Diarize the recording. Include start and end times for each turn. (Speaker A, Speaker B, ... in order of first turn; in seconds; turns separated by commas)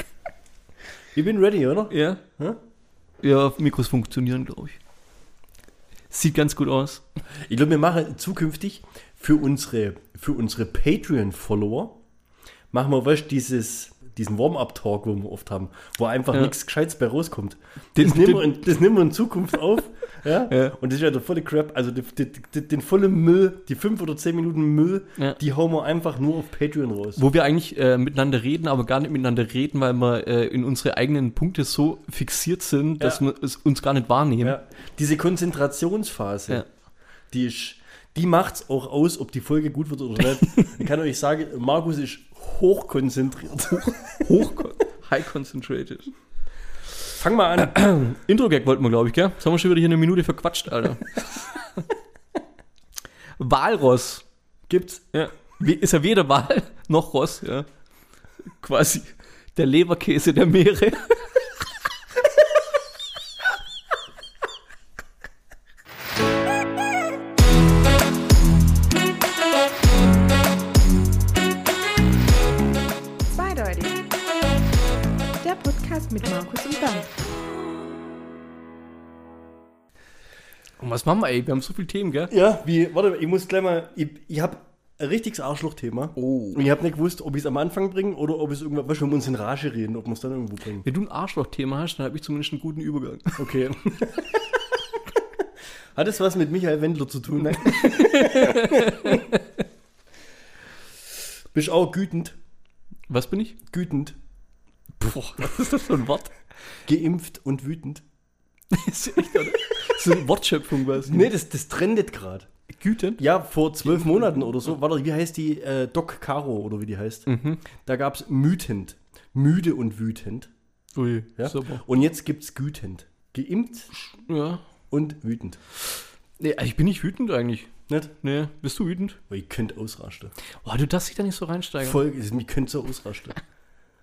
Speaker A: 1.1-2.6, Speaker B: 1.9-2.2, Speaker B: 3.2-4.8, Speaker B: 6.1-7.0, Speaker A: 7.5-12.0, Speaker A: 12.7-27.2, Speaker B: 18.0-18.5, Speaker B: 20.5-20.8, Speaker B: 27.2-34.6, Speaker A: 34.4-36.6, Speaker A: 37.3-44.5, Speaker B: 44.2-46.1, Speaker A: 47.1-47.8, Speaker B: 47.6-51.4, Speaker B: 53.4-54.2, Speaker A: 54.7-55.0, Speaker B: 55.1-57.7, Speaker B: 58.4-61.5, Speaker C: 73.3-74.1, Speaker C: 75.4-77.1, Speaker B: 80.8-82.3, Speaker A: 82.3-90.8, Speaker B: 86.2-86.6, Speaker B: 90.8-93.5, Speaker A: 93.4-94.4, Speaker A: 96.0-99.2, Speaker B: 97.6-99.4, Speaker A: 101.5-102.4, Speaker B: 103.1-103.6, Speaker A: 103.7-104.2, Speaker B: 105.0-106.3, Speaker A: 106.9-108.0, Speaker B: 108.7-111.3, Speaker A: 111.1-112.5, Speaker B: 112.7-113.2, Speaker A: 113.2-120.5, Speaker B: 117.3-117.6, Speaker B: 121.0-121.8, Speaker A: 121.4-124.2, Speaker B: 124.3-124.6, Speaker A: 124.9-125.6, Speaker B: 126.4-129.2, Speaker A: 129.3-130.3, Speaker B: 130.6-132.0, Speaker A: 131.8-133.4